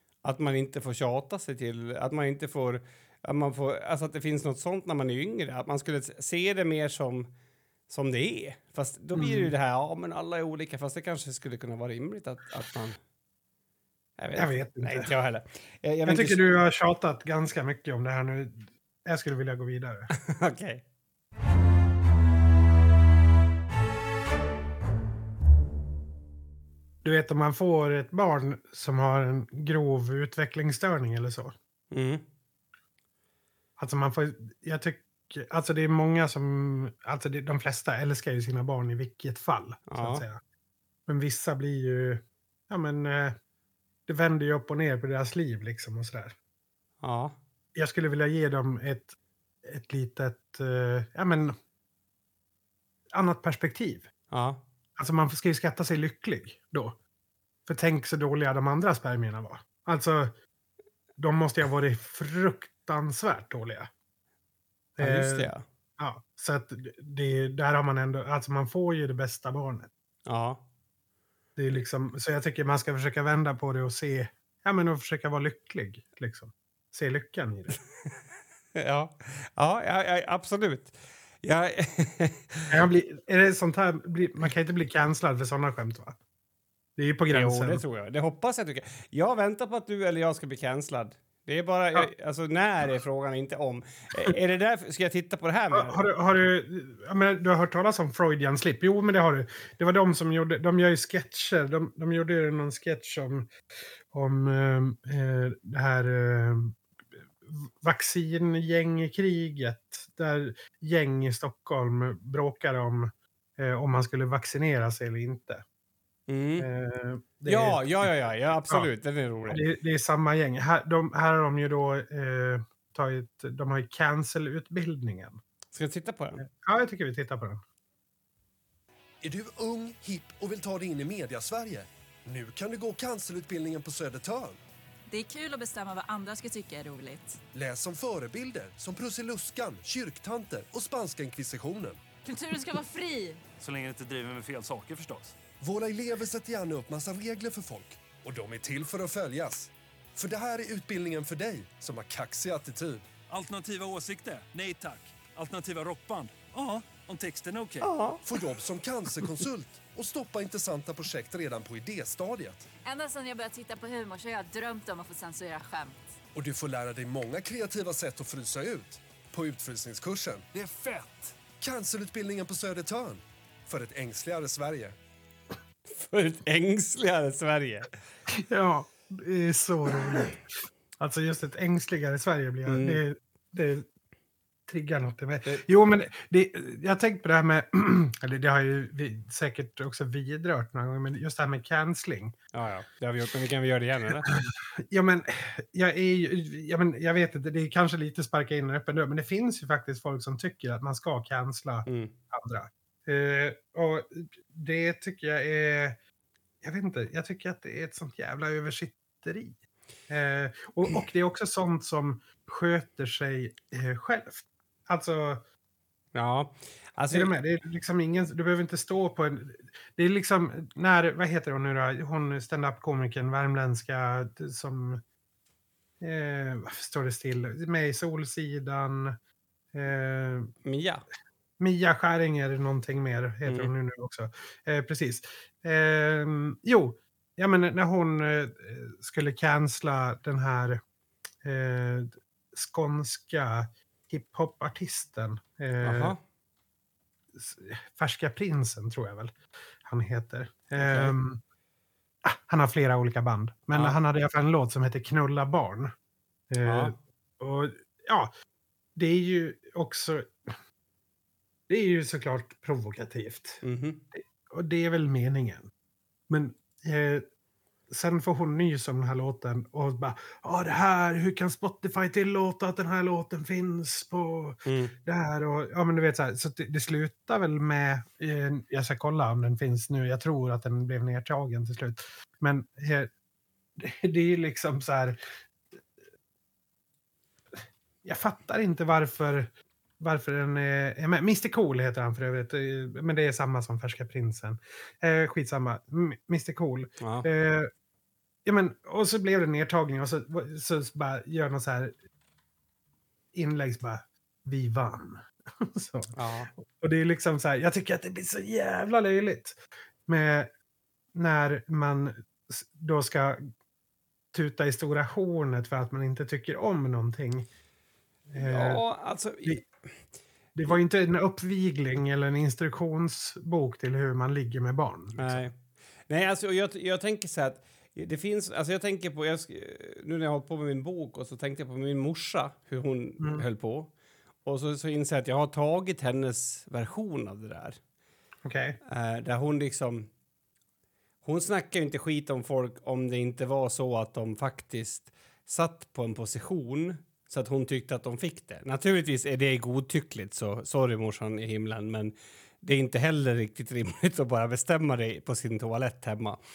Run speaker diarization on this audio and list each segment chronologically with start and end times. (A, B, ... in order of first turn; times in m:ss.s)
0:00.2-0:07.3 A
0:07.9-0:13.0 A
0:09.2-0:09.5 B
0:14.2-0:16.4 A
0:14.4-0:15.1 B
0:16.0-0:20.1 B
0:20.1-0:20.8 A
0:27.0-0:31.5 B
0:31.9-0:32.2 A
0:33.8-0:40.4 B
0:39.9-0:40.2 A
0:41.1-0:43.4 B
0:44.1-0:46.4 B
0:47.0-0:47.4 A
0:47.8-0:51.6 B
0:53.1-0:54.1 B
0:54.3-0:54.6 A
0:55.0-0:57.0 B
0:57.7-1:00.3 B
1:01.2-1:03.9 B
1:05.0-1:09.9 B
1:05.0-1:05.6 A
1:10.3-1:10.6 A
1:11.6-1:17.8 B
1:18.8-1:22.7 A
1:22.7-1:26.2 B
1:27.0-1:27.8 B
1:27.3-1:36.0 A
1:35.7-1:43.5 B
1:44.1-1:46.8 B
1:47.5-1:55.6 B
1:56.3-1:56.7 A
1:56.6-1:58.1 B
1:57.5-1:59.6 A
1:59.5-2:05.4 B
2:05.7-2:06.5 A
2:06.4-2:07.6 B
2:09.2-2:14.6 C
2:15.1-2:17.4 D
2:17.5-2:22.0 C
2:22.2-2:23.4 D
2:23.6-2:25.4 E
2:25.6-2:33.0 C
2:33.3-2:37.9 E
2:37.8-2:38.2 A
2:38.2-2:42.7 C
2:42.8-2:46.0 D
2:46.4-2:55.0 C
2:55.9-2:57.9 A
2:58.3-3:00.5 B
3:01.0-3:03.9 B
3:02.7-3:03.0 A
3:04.7-3:12.4 B
3:12.5-3:14.3 A
3:14.3-3:26.0 B
3:21.9-3:22.1 A
3:26.6-3:29.6 B
3:30.1-3:35.4 B
3:36.2-3:37.3 A
3:37.1-3:45.0 B
3:46.0-3:49.2 B
3:49.7-3:50.5 B
3:50.6-3:51.0 A
3:51.6-4:00.8 B
3:53.5-3:53.7 A
4:01.4-4:06.2 B
4:05.8-4:06.2 A
4:07.3-4:11.4 B
4:10.8-4:11.2 A
4:12.2-4:15.9 B
4:13.7-4:14.0 A
4:16.5-4:18.3 B
4:16.6-4:17.0 A
4:19.0-4:20.6 B
4:21.7-4:23.6 B
4:23.6-4:24.0 A
4:24.1-4:25.7 B
4:26.3-4:27.2 B
4:27.9-4:43.1 B
4:34.6-4:35.0 A
4:43.8-4:45.2 B
4:47.6-4:57.7 B
4:57.0-4:57.3 A
4:58.4-5:02.0 B
5:03.3-5:10.5 B
5:06.2-5:06.5 A
5:11.1-5:13.5 B
5:14.3-5:17.5 B
5:18.3-5:18.8 B
5:18.4-5:19.6 A
5:20.6-5:25.5 B
5:25.2-5:25.6 A
5:26.1-5:33.9 A
5:33.2-5:33.4 B
5:34.4-5:37.8 A
5:38.4-5:38.8 B
5:38.9-5:40.1 A
5:41.2-5:56.4 A